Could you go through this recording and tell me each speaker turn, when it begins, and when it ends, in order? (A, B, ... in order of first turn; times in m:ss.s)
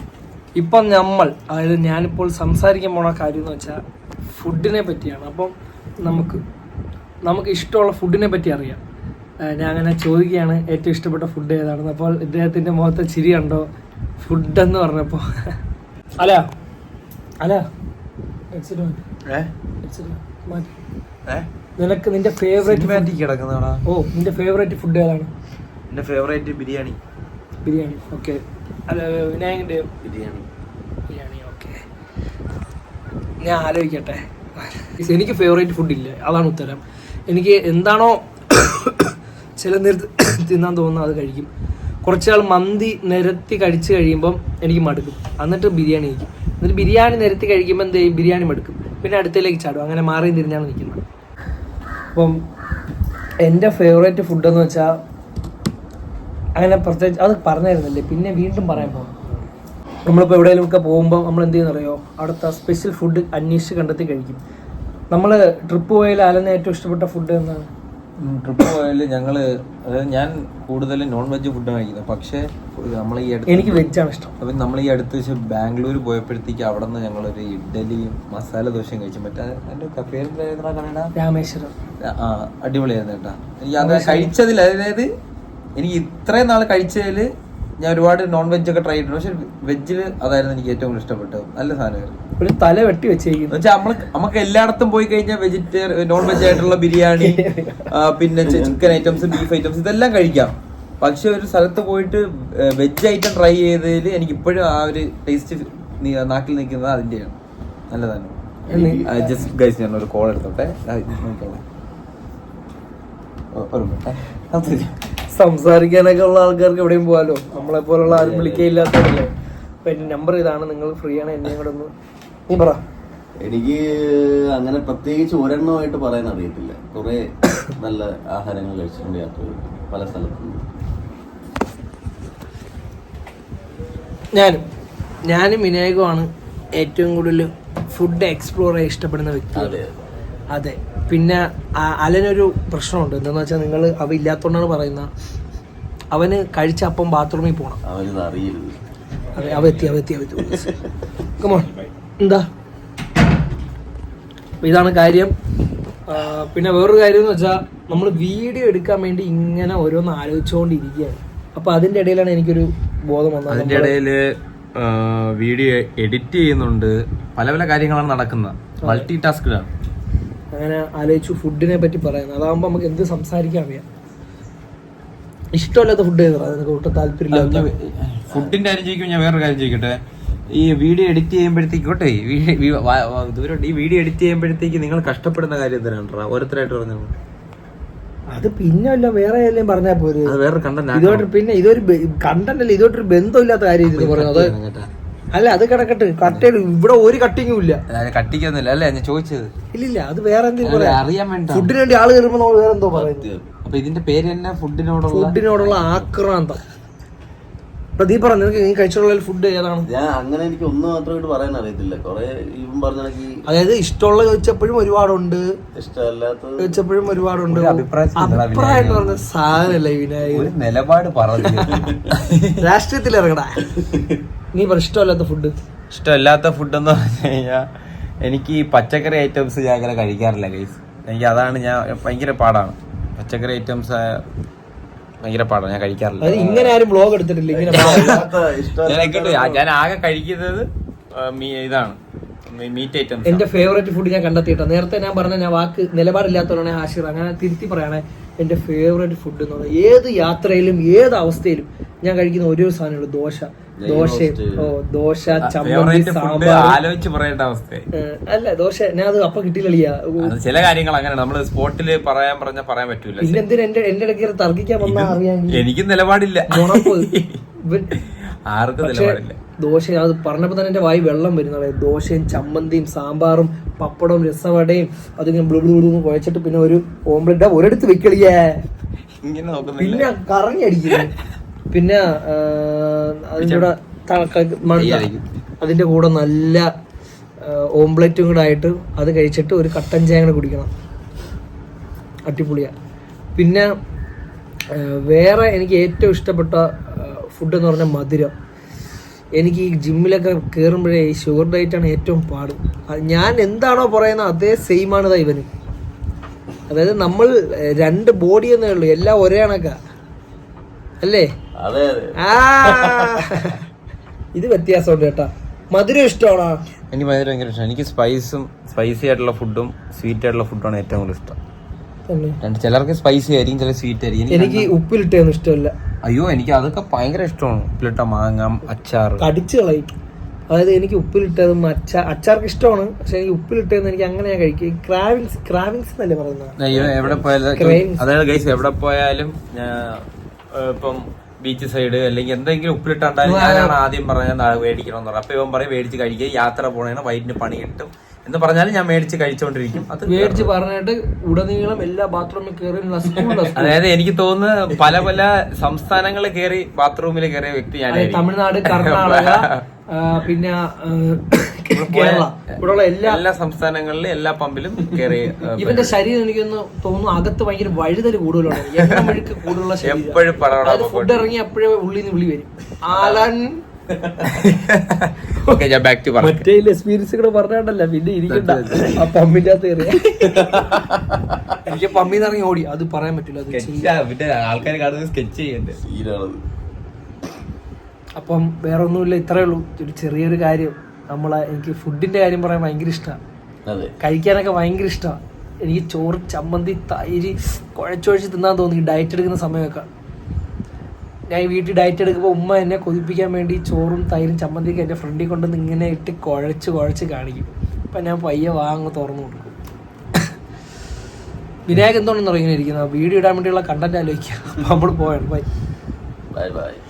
0:00.6-0:03.8 A
0:04.4-0:06.4 A
0:07.2-0:08.8 A
0:09.4-0:13.7 A
0:14.2-0:15.6 A
0:16.2-0:16.5 A
0:18.5-0:19.0 A
0:19.3-0:19.5 B
0:19.8-0:20.8 A
0:21.8-0:23.1 A
0:22.6-0:23.8 B
0:23.9-0:25.3 A
0:25.9-0:27.0 B
0:27.6-0:29.9 A
0:30.0-0:30.4 C
0:31.1-0:31.8 A
0:33.4-0:41.5 A
0:42.0-0:51.0 A
0:52.1-0:52.4 A
0:53.4-0:55.0 A
0:56.6-0:59.2 A
1:00.1-1:04.4 A
1:05.1-1:07.7 A
1:08.2-1:13.9 B
1:13.5-1:14.3 A
1:14.4-1:21.1 B
1:21.2-1:21.7 A
1:22.0-1:25.1 B
1:23.8-1:24.3 A
1:25.8-1:27.3 B
1:27.8-1:32.2 B
1:32.4-1:33.6 A
1:33.5-1:47.4 B
1:37.2-1:37.9 A
1:38.4-1:39.3 C
1:47.9-1:48.3 B
1:48.7-1:49.3 A
1:48.7-1:49.1 C
1:49.0-1:51.6 B
1:53.5-1:55.0 B
1:55.3-1:59.3 A
1:58.1-1:58.7 C
1:59.8-2:01.9 A
2:02.5-2:02.8 A
2:03.4-2:07.2 C
2:07.8-2:10.6 C
2:14.3-2:14.6 A
2:15.3-2:19.8 A
2:19.5-2:20.0 C
2:20.5-2:25.1 A
2:26.1-2:27.8 A
2:27.9-2:28.7 C
2:29.4-2:30.8 A
2:29.4-2:30.0 B
2:31.4-2:32.5 A
2:34.6-2:35.3 A
2:36.1-2:43.9 A
2:43.5-2:49.7 B
2:50.5-2:53.8 A
2:55.5-2:57.7 A
2:57.3-3:00.0 B
3:00.5-3:07.1 B
3:08.3-3:10.4 A
3:10.3-3:11.3 B
3:10.9-3:14.5 A
3:13.8-3:14.9 B
3:15.3-3:17.8 A
3:17.9-3:19.5 B
3:19.7-3:23.3 A
3:20.6-3:21.7 B
3:22.9-3:23.5 C
3:23.6-3:26.1 B
3:25.1-3:26.6 A
3:28.0-3:29.9 A
3:29.9-3:33.4 C
3:33.5-3:35.4 A
3:35.7-3:36.8 C
3:36.6-3:40.5 A
3:37.5-3:39.3 B
3:40.3-3:42.6 B
3:42.6-3:43.8 A
3:44.5-3:45.5 A
3:45.9-3:47.7 B
3:48.2-3:54.2 B
3:55.2-3:56.4 B
3:56.2-3:58.2 A
3:56.3-3:56.7 C
3:57.5-3:59.5 C
3:57.7-3:58.2 B
3:58.8-4:02.0 B
4:02.5-4:03.5 B
4:03.2-4:16.8 A
4:13.8-4:14.7 C
4:15.4-4:17.9 B
4:17.9-4:20.3 A
4:20.2-4:23.4 B
4:23.2-4:25.6 A
4:24.8-4:29.4 B
4:26.5-4:28.0 A
4:28.8-4:38.6 A
4:39.2-4:40.1 B
4:39.8-4:41.1 A
4:41.7-4:45.1 A
4:43.4-4:43.7 B
4:44.7-4:45.2 B
4:45.6-4:46.7 A
4:47.4-4:50.7 A
4:52.3-4:52.7 A
4:53.4-4:53.7 A
4:54.7-4:58.3 A
4:59.4-5:05.5 A
5:06.7-5:09.8 A
5:11.0-5:11.3 A
5:11.6-5:12.2 C
5:12.2-5:13.6 A
5:14.3-5:16.6 A
5:16.9-5:21.4 B
5:22.1-5:22.4 A
5:22.4-5:24.7 B
5:24.3-5:25.7 A
5:26.0-5:29.3 B
5:29.2-5:29.9 A
5:30.5-5:36.6 A
5:36.6-5:50.5 B
5:36.7-5:37.2 C
5:37.6-5:38.0 A
5:43.2-5:43.8 A
5:50.1-5:53.8 A
5:53.5-5:59.6 B
5:57.9-6:03.2 A
6:01.7-6:06.0 B
6:05.6-6:13.6 A
6:08.5-6:09.3 B
6:09.8-6:11.3 B
6:12.9-6:13.3 B
6:13.9-6:16.4 B
6:16.2-6:20.4 A
6:18.3-6:19.1 B
6:20.2-6:21.6 B
6:21.6-6:23.9 A
6:23.5-6:25.8 B
6:25.8-6:26.4 C
6:28.2-6:33.2 A
6:33.7-6:33.9 C
6:34.0-6:39.9 A
6:41.3-6:49.6 A
6:51.7-6:55.5 A
6:56.3-6:56.8 C